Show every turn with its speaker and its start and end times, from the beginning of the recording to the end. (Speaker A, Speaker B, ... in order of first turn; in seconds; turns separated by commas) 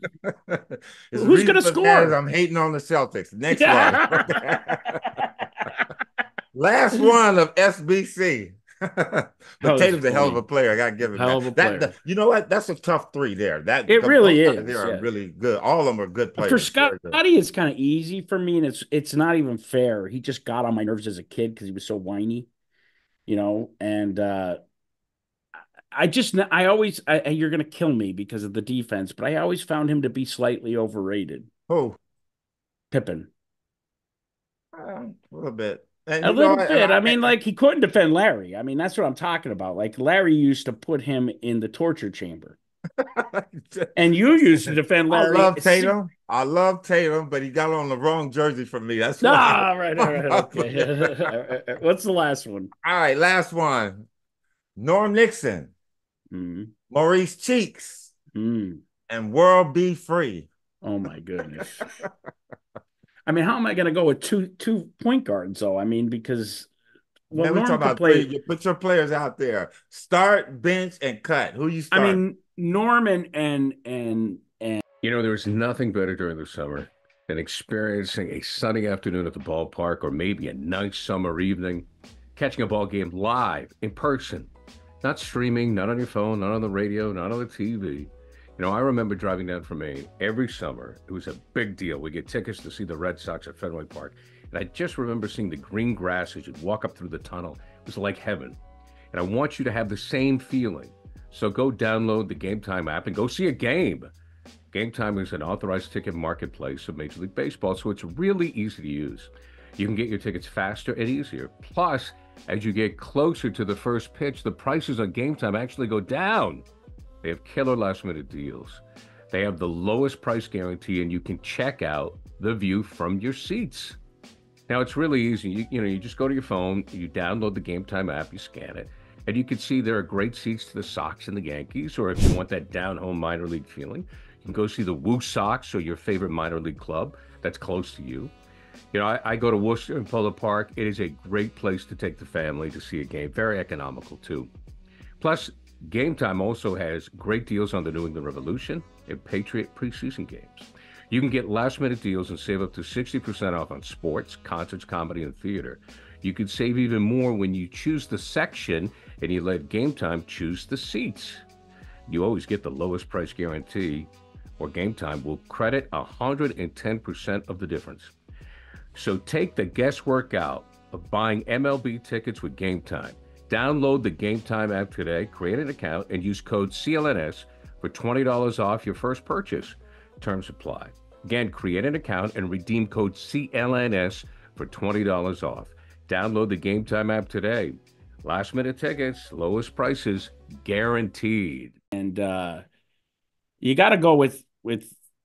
Speaker A: 0.2-5.2, Speaker B: 1.1-2.1, Speaker B: 3.5-4.5, Speaker B: 5.2-5.9, Speaker A: 6.5-17.2, Speaker B: 9.6-10.4, Speaker B: 11.1-11.9, Speaker B: 13.9-15.1, Speaker B: 16.4-22.5, Speaker B: 23.2-24.6, Speaker B: 25.9-31.5, Speaker A: 31.7-32.0, Speaker B: 32.9-33.3, Speaker A: 34.7-37.3, Speaker B: 36.2-42.6, Speaker A: 43.0-51.3, Speaker B: 44.0-45.9, Speaker B: 49.2-52.7, Speaker A: 52.8-54.0, Speaker A: 54.8-55.7, Speaker B: 56.3-56.7, Speaker A: 56.9-58.1, Speaker B: 58.3-58.8, Speaker A: 59.1-60.5, Speaker B: 60.8-61.8, Speaker A: 61.6-61.8, Speaker B: 63.2-66.7, Speaker B: 67.3-68.3, Speaker A: 67.3-72.2, Speaker B: 71.9-74.8, Speaker C: 75.0-98.6, Speaker C: 99.1-104.1, Speaker C: 104.7-116.7, Speaker C: 117.2-124.0, Speaker C: 124.7-138.3, Speaker C: 138.9-144.5, Speaker C: 145.2-161.4, Speaker C: 162.1-168.1, Speaker C: 168.9-191.7, Speaker B: 191.9-192.6, Speaker B: 193.6-194.9